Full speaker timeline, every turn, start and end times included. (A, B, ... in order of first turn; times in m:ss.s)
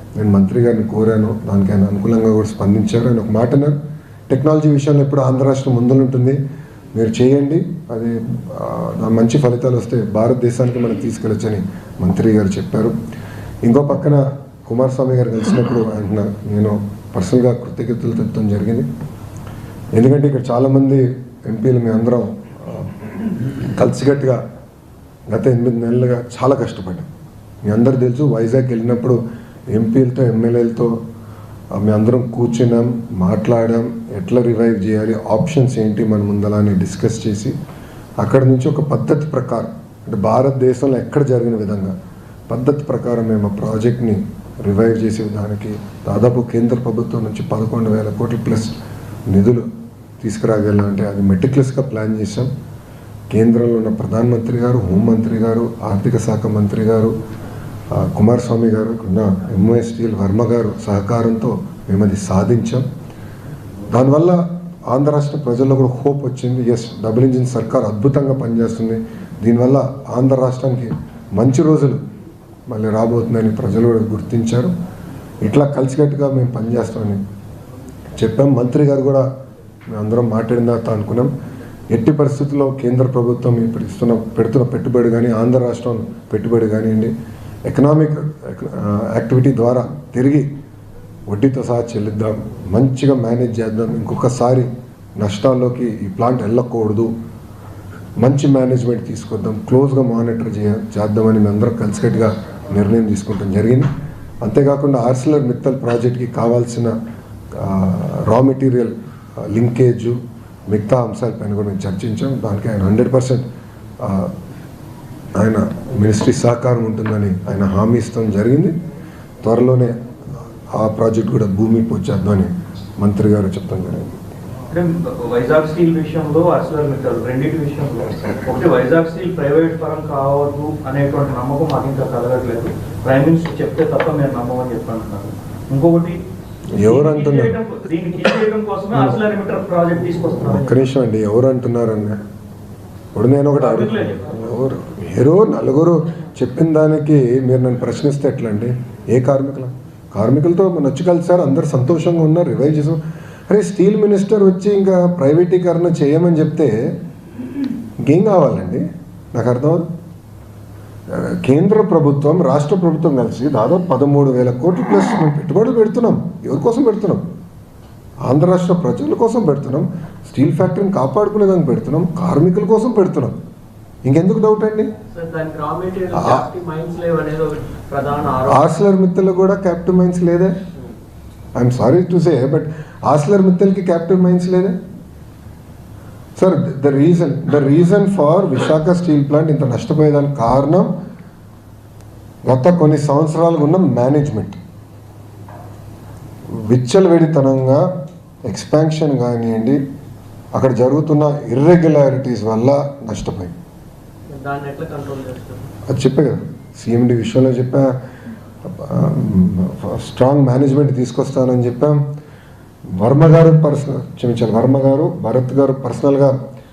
0:00.2-0:03.8 A
0:04.3-0:06.4 A
0:06.9-0:12.9 A
0:13.6-0:18.9 A
0:19.9-0:24.4 A
0:25.3-0:27.1 A
0:27.6-0:31.0 A
0:31.7-0:37.6 A
0:38.2-0:41.9 A
0:42.5-0:48.7 A
0:49.3-0:49.7 A
0:50.2-0:52.5 A
0:53.3-0:57.2 A
0:57.9-1:02.8 A
1:03.9-1:12.0 A
1:12.7-1:14.7 A
1:15.4-1:17.2 A
1:18.2-1:19.2 A
1:19.9-1:21.3 A
1:21.9-1:27.1 A
1:27.6-1:30.5 A
1:31.3-1:37.1 A
1:38.2-1:43.9 A
1:44.4-1:46.9 A
1:47.5-1:53.5 A
1:54.0-1:54.3 A
1:55.4-1:58.8 A
1:59.4-1:59.9 A
2:00.7-2:04.2 A
2:04.7-2:16.2 B
2:16.7-2:17.6 A
2:16.8-2:20.8 B
2:20.4-2:22.2 A
2:23.1-2:36.9 A
2:23.6-2:24.3 B
2:38.0-2:39.9 A
2:41.1-2:47.3 A
2:48.2-2:53.4 A
2:54.0-2:54.9 A
2:55.1-2:58.8 C
2:56.1-2:56.4 A
2:58.5-3:00.6 A
3:01.5-3:04.8 A
3:06.4-3:10.9 A
3:12.4-3:14.6 A
3:16.5-3:17.9 A
3:18.4-3:19.8 A
3:20.5-3:23.5 A
3:24.3-3:25.7 C
3:25.9-3:27.9 A
3:28.6-3:32.0 A
3:32.9-3:36.3 A